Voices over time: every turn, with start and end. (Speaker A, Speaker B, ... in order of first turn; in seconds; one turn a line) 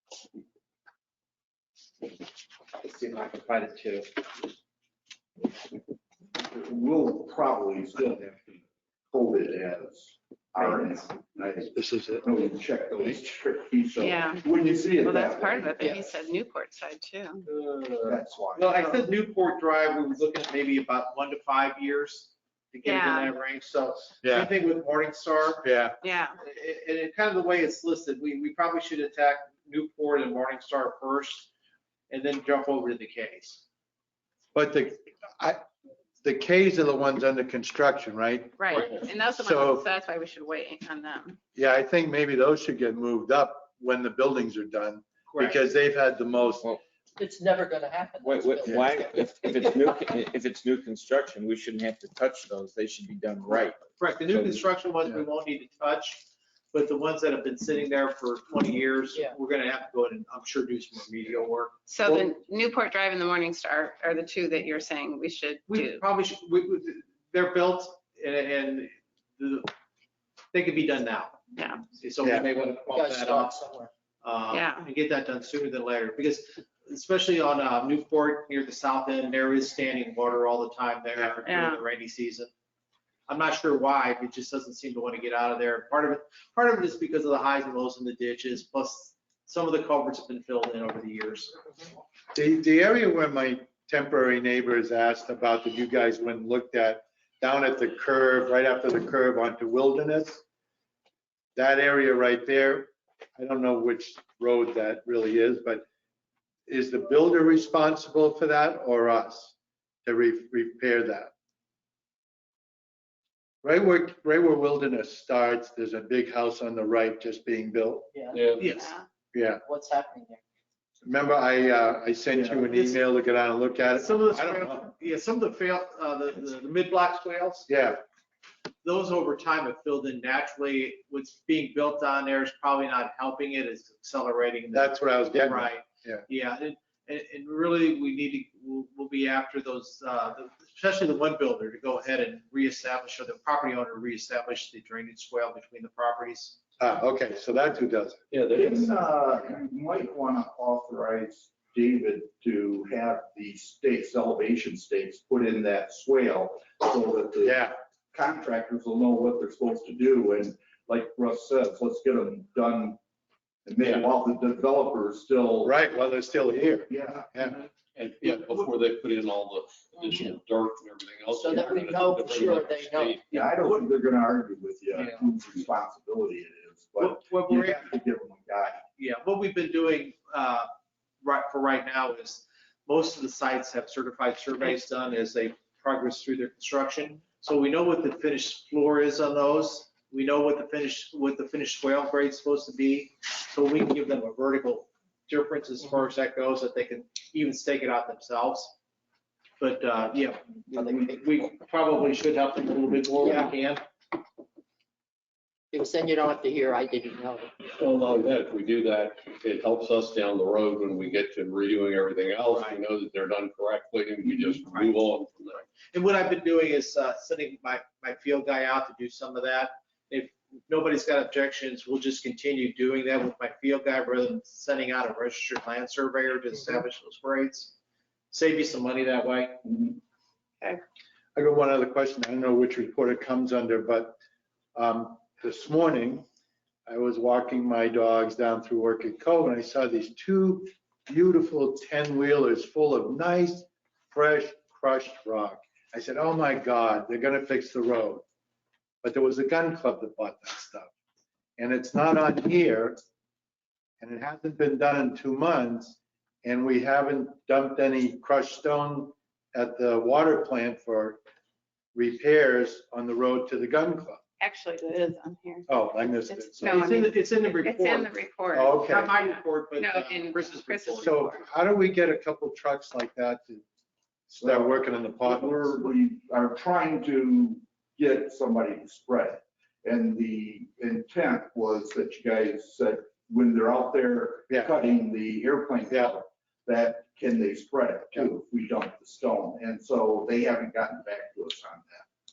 Speaker A: 6.4-8.6
Speaker A: 9.1-15.8
Speaker B: 11.8-12.3
Speaker C: 14.0-17.5
Speaker D: 17.8-25.7
Speaker A: 18.1-18.8
Speaker C: 22.8-23.3
Speaker B: 24.2-24.5
Speaker B: 25.6-26.0
Speaker C: 26.0-26.4
Speaker D: 26.4-31.5
Speaker D: 32.1-33.6
Speaker B: 34.5-35.6
Speaker B: 36.2-39.9
Speaker C: 38.6-41.4
Speaker B: 41.5-46.7
Speaker D: 45.3-45.6
Speaker E: 47.2-50.0
Speaker F: 48.2-54.6
Speaker B: 48.7-48.9
Speaker D: 54.0-62.0
Speaker C: 61.9-66.0
Speaker D: 65.7-69.7
Speaker D: 70.5-73.5
Speaker C: 71.5-71.8
Speaker B: 72.2-72.5
Speaker E: 72.6-73.9
Speaker D: 74.2-82.5
Speaker C: 74.5-74.9
Speaker C: 81.4-81.8
Speaker D: 83.3-91.5
Speaker B: 92.3-100.4
Speaker B: 101.5-105.8
Speaker B: 106.7-109.5
Speaker B: 110.0-111.3
Speaker B: 113.6-118.1
Speaker E: 118.1-118.4
Speaker G: 118.3-118.7
Speaker D: 118.6-118.9
Speaker C: 118.8-119.0
Speaker B: 119.3-119.6
Speaker E: 119.6-120.4
Speaker B: 121.0-124.8
Speaker D: 122.7-123.0
Speaker D: 123.9-127.7
Speaker B: 127.7-128.0
Speaker D: 128.8-146.6
Speaker B: 134.7-136.2
Speaker B: 146.8-148.2
Speaker G: 148.3-149.0
Speaker A: 148.5-157.6
Speaker B: 157.4-157.8
Speaker A: 158.1-163.0
Speaker A: 163.7-165.7
Speaker G: 163.8-164.1
Speaker B: 165.6-167.6
Speaker A: 166.9-167.6
Speaker G: 167.9-173.6
Speaker E: 171.3-173.2
Speaker A: 173.3-178.8
Speaker G: 174.9-175.3
Speaker D: 177.0-177.9
Speaker D: 179.0-180.7
Speaker D: 181.2-198.7
Speaker D: 199.6-203.8
Speaker E: 200.7-201.3
Speaker E: 203.2-203.5
Speaker E: 205.7-207.5
Speaker G: 207.7-215.7
Speaker A: 214.4-214.9
Speaker D: 215.9-227.8
Speaker D: 228.3-229.6
Speaker B: 231.3-234.2
Speaker B: 234.8-236.2
Speaker B: 236.9-248.2
Speaker B: 249.0-250.9
Speaker B: 251.6-253.0
Speaker B: 254.0-261.2
Speaker B: 261.9-264.2
Speaker C: 264.4-271.4
Speaker B: 265.7-267.1
Speaker D: 266.6-268.2
Speaker B: 268.5-269.1
Speaker D: 268.8-271.2
Speaker B: 271.0-273.6
Speaker B: 274.3-275.9
Speaker A: 274.4-292.1
Speaker B: 285.9-286.1